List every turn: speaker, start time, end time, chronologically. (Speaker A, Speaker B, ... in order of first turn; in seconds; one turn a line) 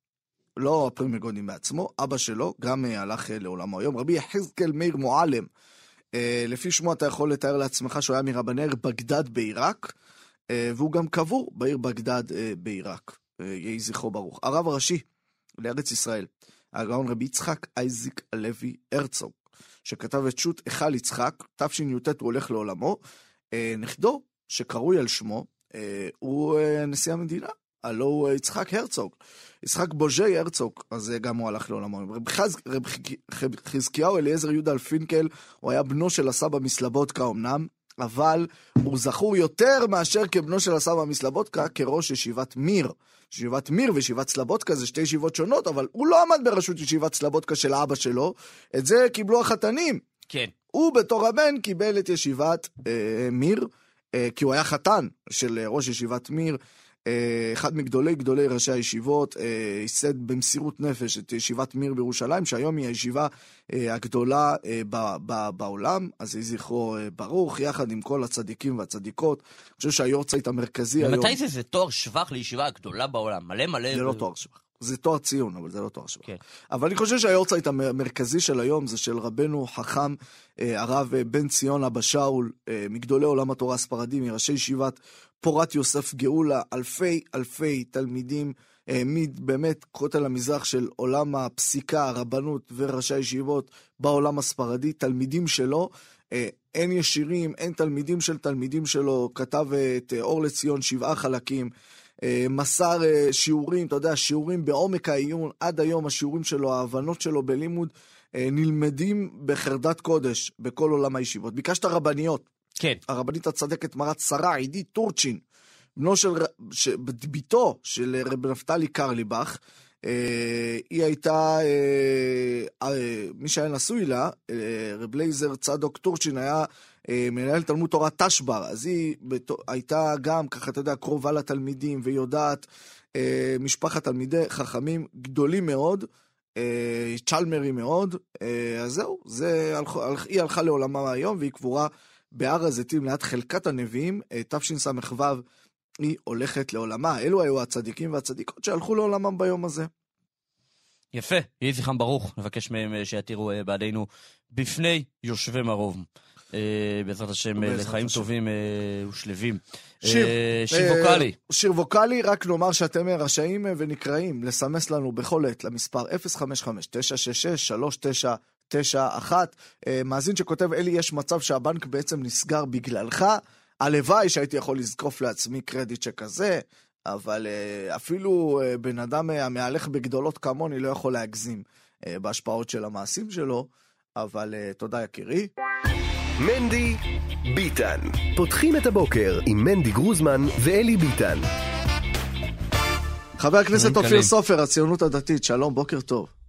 Speaker A: 0.6-5.5
Speaker A: 6.1-9.9
Speaker A: 10.5-15.0
Speaker A: 15.6-23.0
Speaker A: 23.5-50.0
Speaker A: 50.7-71.4
Speaker B: 71.0-74.2
Speaker A: 73.9-101.7
Speaker A: 102.2-112.5
Speaker A: 113.1-115.4
Speaker A: 116.0-136.1
Speaker A: 136.6-145.4
Speaker A: 146.0-149.9
Speaker B: 151.1-161.3
Speaker A: 157.6-158.3
Speaker A: 160.0-185.5
Speaker C: 186.4-191.5
Speaker A: 193.4-196.3
Speaker B: 193.8-194.3